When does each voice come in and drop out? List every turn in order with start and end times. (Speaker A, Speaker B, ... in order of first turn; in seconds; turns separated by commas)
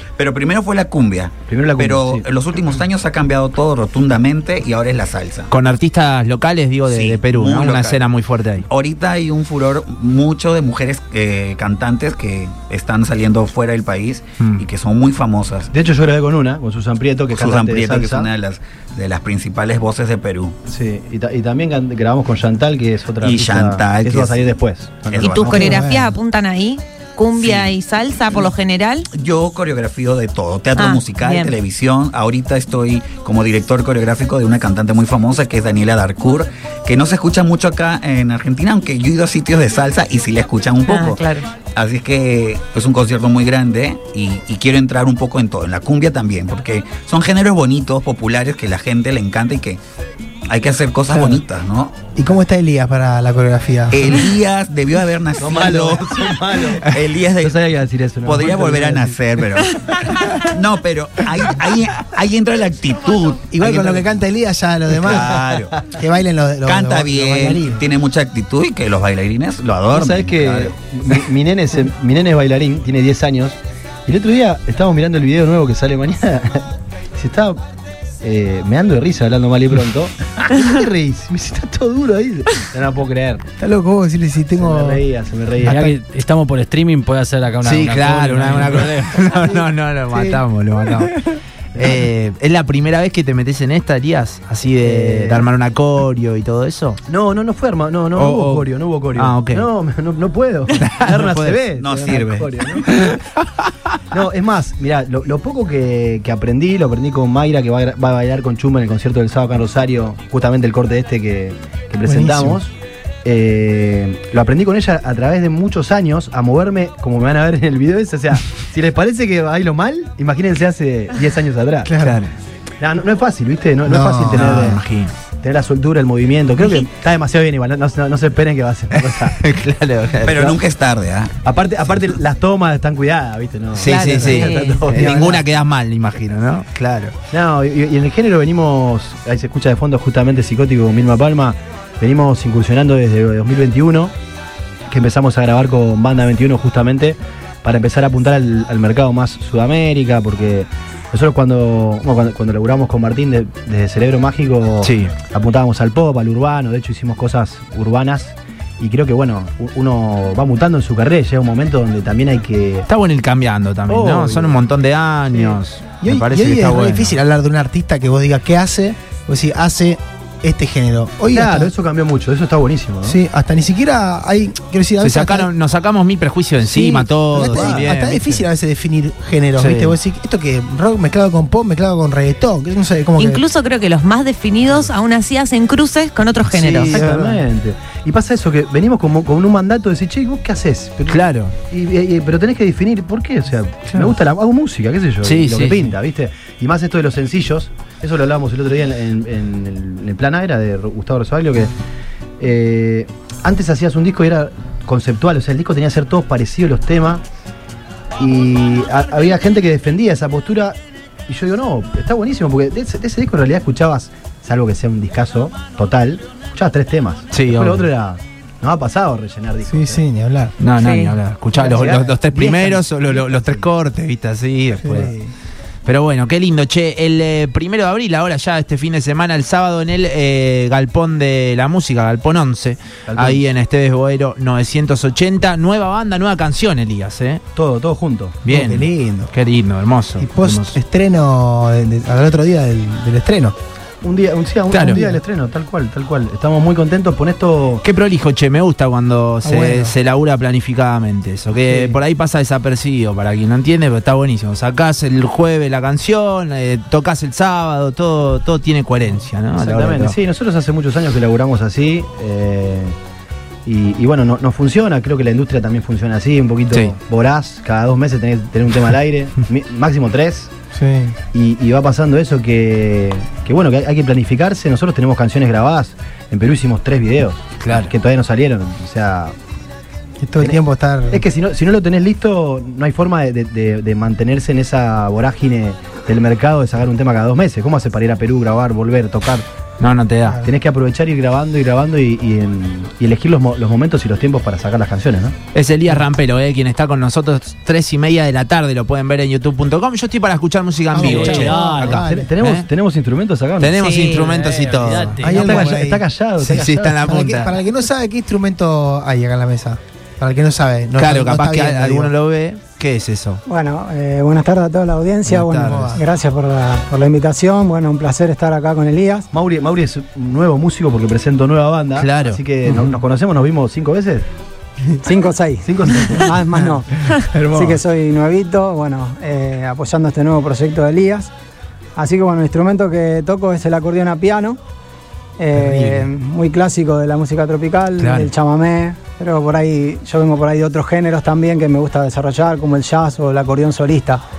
Speaker A: 0.2-5.5, Speaker B: 1.5-2.3, Speaker C: 5.5-8.7, Speaker A: 6.9-8.1, Speaker A: 8.7-15.7, Speaker B: 15.7-18.3, Speaker A: 17.3-20.6, Speaker B: 20.7-25.8, Speaker A: 23.2-24.5, Speaker A: 25.1-25.5, Speaker D: 25.2-29.1, Speaker E: 25.4-26.1, Speaker A: 27.3-27.7, Speaker A: 29.1-49.8, Speaker D: 30.8-31.6, Speaker D: 40.9-41.5, Speaker A: 50.5-52.0, Speaker E: 51.1-51.4, Speaker E: 52.2-54.1, Speaker A: 53.9-57.6, Speaker B: 55.4-59.2, Speaker A: 58.2-64.1, Speaker E: 63.5-65.3, Speaker B: 64.9-66.0, Speaker A: 65.0-65.8, Speaker E: 65.9-67.8, Speaker A: 66.7-70.8, Speaker B: 69.9-77.6, Speaker B: 78.2-83.5, Speaker E: 83.6-85.0, Speaker B: 84.5-85.8, Speaker F: 85.7-89.4, Speaker E: 85.7-85.9, Speaker C: 87.6-91.2, Speaker E: 90.1-90.4, Speaker B: 91.8-92.0, Speaker C: 91.8-97.0, Speaker B: 94.8-95.5, Speaker B: 97.1-102.9, Speaker C: 98.2-99.7, Speaker C: 100.8-103.3, Speaker A: 101.8-102.2, Speaker B: 104.1-112.7, Speaker E: 112.1-112.6, Speaker B: 113.2-121.9, Speaker E: 121.8-122.2, Speaker C: 122.0-122.3, Speaker B: 122.8-124.8, Speaker E: 123.8-124.6, Speaker C: 124.3-125.1, Speaker B: 125.4-129.4, Speaker C: 128.9-130.6, Speaker A: 130.2-131.3, Speaker B: 131.4-135.4, Speaker C: 133.8-137.2, Speaker D: 133.8-134.9, Speaker B: 137.3-144.1, Speaker B: 144.9-162.9, Speaker C: 154.8-155.1, Speaker C: 162.9-167.2, Speaker B: 163.9-164.7, Speaker B: 165.3-165.6, Speaker E: 166.0-171.7, Speaker B: 171.3-173.2, Speaker E: 173.0-175.5, Speaker C: 175.0-178.5, Speaker E: 176.7-183.4, Speaker B: 177.5-177.8, Speaker C: 179.6-180.0, Speaker D: 183.2-187.1, Speaker B: 186.5-201.7, Speaker E: 186.9-187.4, Speaker C: 191.1-191.6, Speaker C: 195.2-195.9, Speaker B: 202.4-207.2, Speaker B: 208.2-210.8, Speaker B: 211.3-220.0, Speaker C: 217.3-217.9, Speaker E: 219.7-220.6, Speaker C: 220.6-225.1, Speaker D: 220.8-221.2, Speaker B: 221.6-223.7, Speaker E: 221.7-222.1, Speaker E: 224.8-225.3, Speaker C: 225.8-237.4, Speaker B: 233.1-233.5, Speaker B: 237.6-238.4, Speaker C: 238.4-240.8, Speaker E: 238.5-239.3, Speaker E: 240.2-243.6, Speaker B: 244.0-247.8, Speaker C: 244.7-245.0, Speaker E: 244.9-245.2, Speaker C: 247.8-260.2, Speaker E: 249.4-249.9, Speaker B: 251.7-252.0, Speaker B: 259.5-262.9, Speaker B: 263.7-270.5, Speaker E: 270.7-271.2, Speaker B: 271.3-279.4, Speaker C: 277.6-277.9, Speaker E: 280.2-281.2, Speaker B: 280.4-289.5, Speaker C: 289.8-290.4, Speaker B: 290.4-295.4, Speaker C: 295.5-302.7, Speaker E: 300.9-302.3, Speaker F: 301.0-301.9, Speaker B: 301.9-303.8, Speaker C: 303.6-305.2, Speaker D: 303.7-304.4, Speaker F: 304.2-305.7, Speaker B: 305.2-307.0, Speaker E: 305.2-312.1, Speaker C: 306.5-307.6, Speaker C: 311.0-313.4, Speaker G: 313.5-319.3, Speaker C: 315.2-316.0, Speaker E: 315.6-316.0, Speaker B: 319.3-324.3, Speaker C: 322.0-322.4, Speaker G: 325.0-331.3, Speaker B: 325.6-326.7, Speaker E: 327.3-327.7, Speaker G: 332.0-334.6, Speaker G: 335.4-344.2, Speaker C: 335.6-336.0, Speaker C: 338.0-338.3